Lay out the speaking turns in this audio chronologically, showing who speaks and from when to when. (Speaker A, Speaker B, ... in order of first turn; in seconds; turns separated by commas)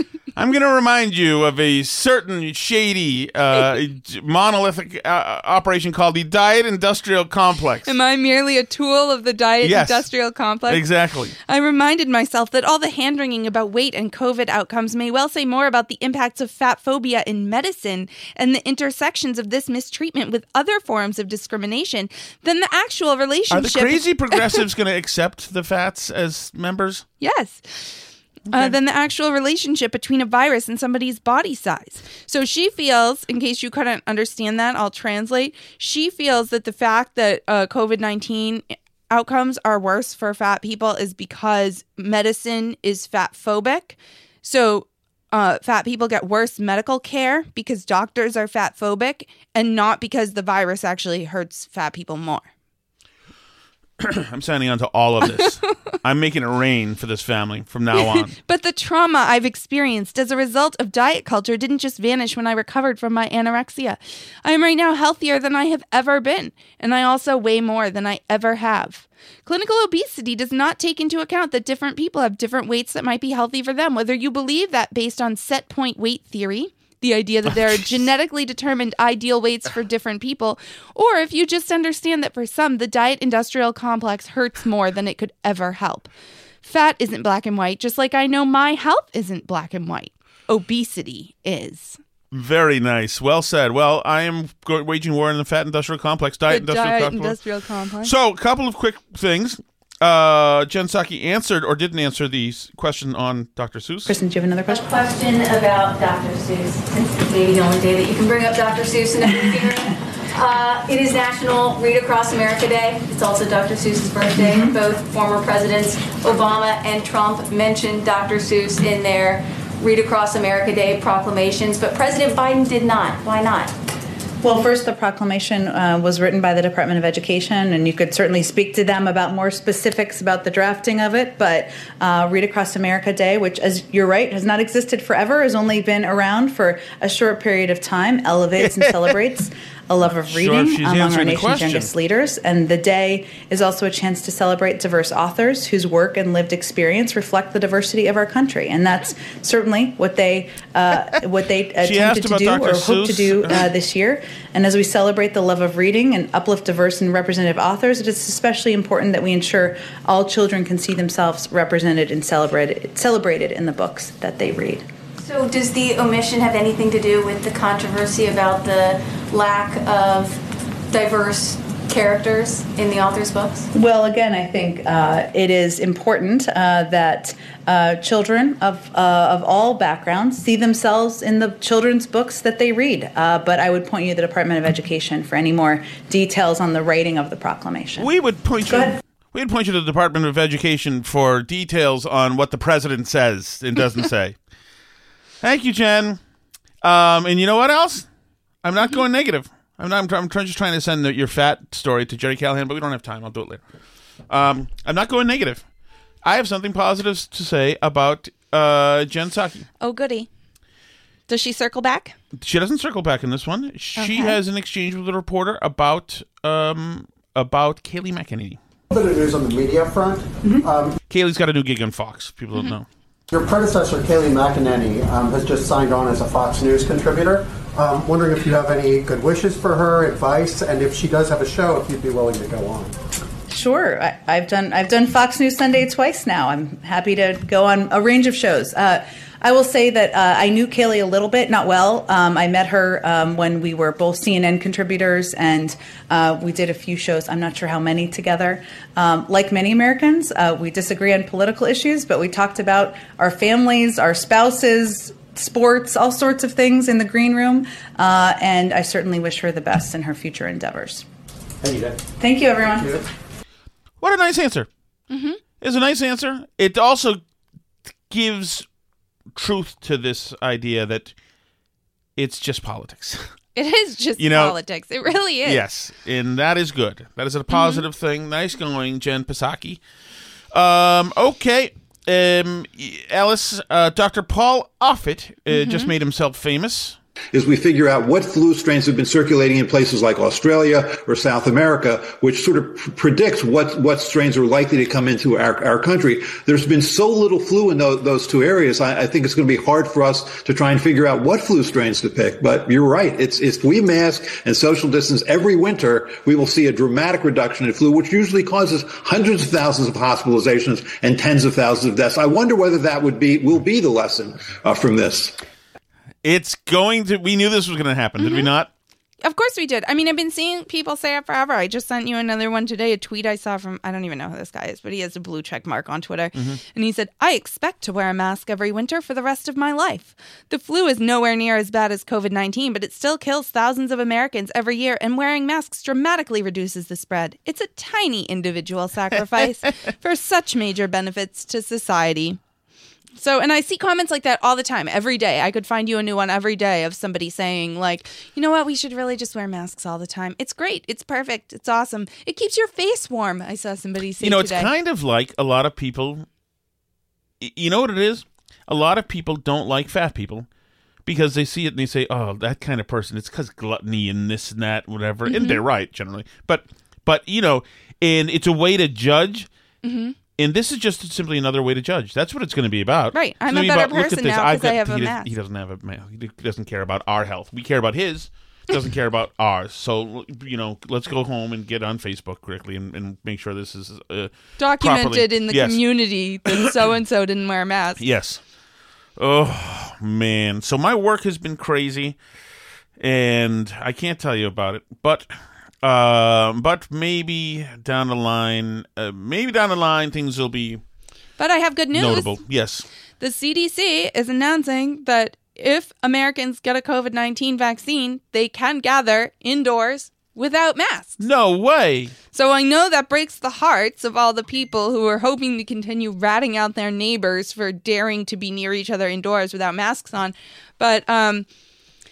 Speaker A: 0.3-7.9, Speaker B: 7.8-10.8, Speaker A: 9.6-10.1, Speaker A: 10.7-11.3, Speaker B: 11.4-24.6, Speaker A: 23.5-27.1, Speaker B: 27.2-52.5, Speaker A: 54.0-58.3, Speaker B: 57.9-86.1, Speaker B: 86.6-92.0, Speaker A: 92.3-97.3, Speaker B: 96.5-98.1, Speaker A: 98.0-104.2, Speaker C: 104.1-105.0, Speaker D: 104.7-123.7, Speaker C: 114.4-114.7, Speaker C: 124.4-164.8, Speaker A: 138.6-139.2, Speaker A: 140.2-141.9, Speaker A: 151.8-153.7, Speaker D: 165.2-173.7, Speaker C: 173.7-188.9, Speaker A: 188.0-194.3, Speaker A: 195.4-196.2, Speaker A: 196.8-198.1, Speaker A: 198.6-203.6, Speaker A: 204.3-205.6, Speaker A: 206.2-209.6, Speaker B: 209.8-210.3, Speaker B: 211.3-212.2, Speaker A: 212.3-218.6, Speaker B: 214.0-214.4, Speaker E: 218.9-220.9, Speaker A: 221.1-222.9, Speaker E: 223.3-232.9, Speaker C: 233.5-261.1, Speaker E: 261.6-261.9, Speaker C: 262.2-262.9, Speaker A: 264.0-264.7, Speaker B: 265.1-265.4, Speaker A: 265.6-267.2, Speaker A: 268.1-268.6, Speaker A: 269.3-271.1, Speaker A: 272.2-273.3, Speaker B: 273.5-275.6, Speaker A: 274.2-274.6, Speaker A: 275.4-279.8, Speaker B: 277.5-277.8, Speaker A: 280.5-287.0, Speaker B: 285.5-285.9, Speaker F: 287.3-315.4, Speaker A: 316.2-318.7, Speaker B: 318.2-318.5, Speaker B: 319.2-342.4, Speaker A: 326.3-326.6, Speaker B: 343.2-354.7, Speaker A: 354.2-356.2, Speaker A: 357.4-360.5, Speaker A: 361.1-369.5, Speaker B: 365.3-365.6, Speaker B: 369.8-370.1, Speaker A: 370.4-385.8, Speaker B: 373.1-375.3, Speaker B: 384.6-388.0, Speaker A: 388.0-388.4, Speaker A: 389.2-392.2, Speaker A: 393.0-395.3, Speaker A: 395.8-400.8, Speaker B: 401.4-402.3, Speaker A: 401.9-402.9, Speaker B: 403.2-411.2, Speaker A: 411.2-412.1, Speaker B: 412.3-421.5